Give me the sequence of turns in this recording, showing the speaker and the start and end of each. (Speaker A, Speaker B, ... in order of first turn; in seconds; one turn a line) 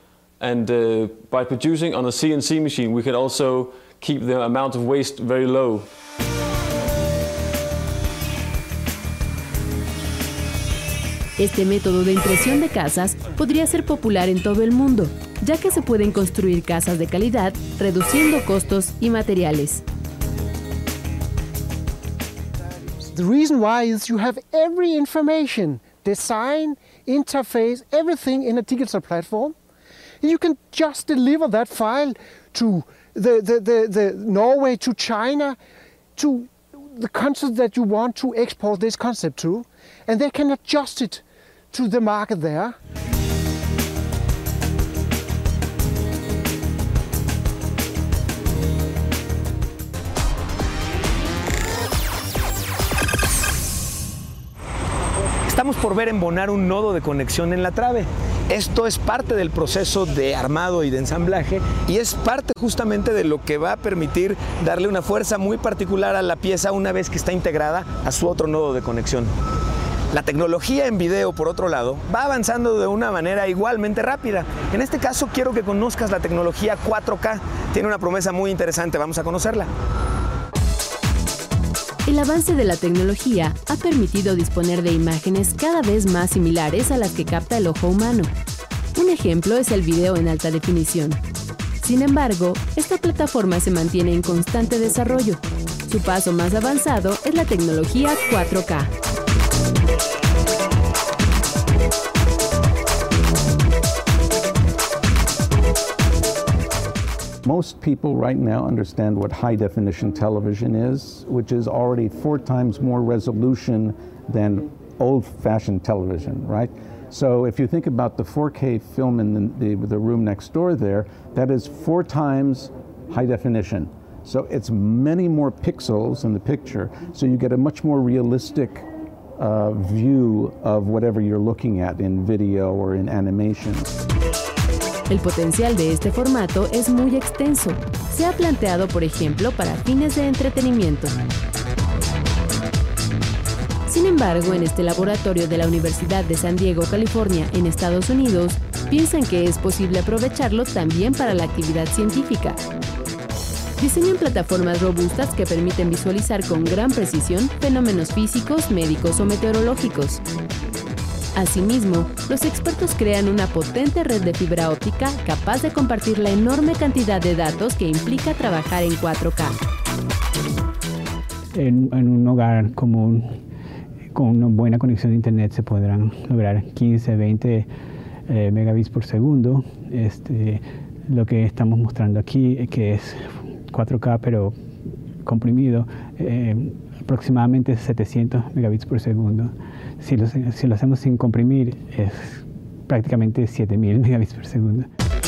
Speaker A: 0.4-5.9
Speaker B: 11.4-19.8
Speaker C: 23.1-29.6
Speaker C: 30.2-35.6
Speaker C: 36.1-42.8
Speaker D: 55.5-69.3
Speaker D: 70.1-79.7
Speaker B: 82.0-88.3
Speaker B: 88.9-91.2
Speaker B: 91.8-98.9
Speaker E: 107.4-133.9
Speaker B: 135.1-141.2
Speaker B: 143.9-152.6
Speaker B: 153.8-160.2
Speaker B: 161.3-169.6
Speaker F: 171.5-173.4
Speaker F: 174.1-177.7
Speaker F: 178.3-184.6
Speaker F: 185.2-194.9